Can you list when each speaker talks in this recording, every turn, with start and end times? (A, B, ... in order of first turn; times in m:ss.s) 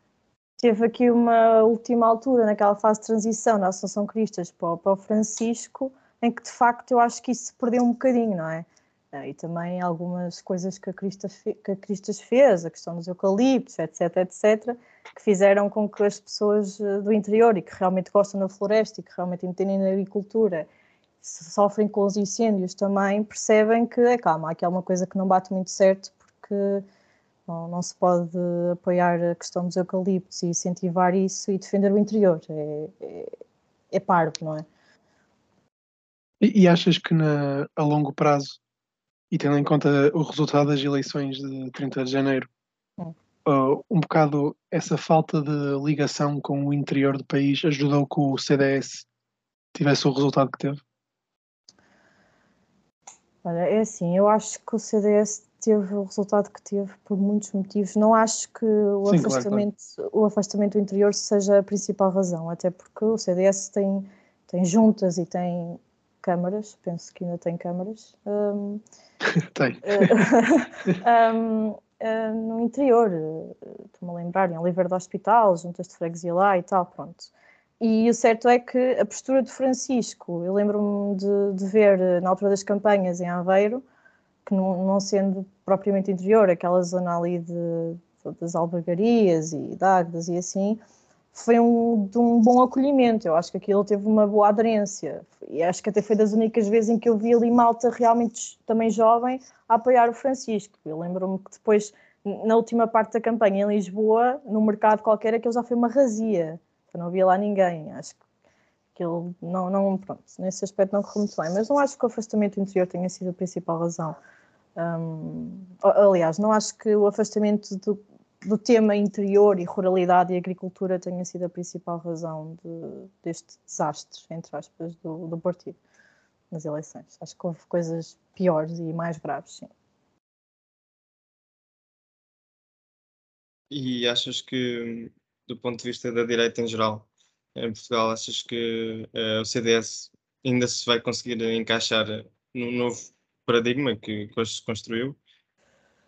0:00.6-0:20.7 A
0:21.2-0:26.8 A
0:27.5-0:33.3 A
0:33.9-0:34.7 A
0:36.4-0:38.6 B
0:39.3-0:42.5 B
0:43.4-0:49.1 B
0:49.7-0:50.8 B
0:53.4-1:08.8 A
0:59.1-0:59.6 B
1:09.5-1:10.3 B
1:09.8-1:23.8 A
1:24.4-1:30.8 A
1:31.3-1:48.2 A
1:48.9-1:54.2 A
1:54.8-2:05.8 A
2:06.5-2:09.7 A
2:13.7-2:25.2 C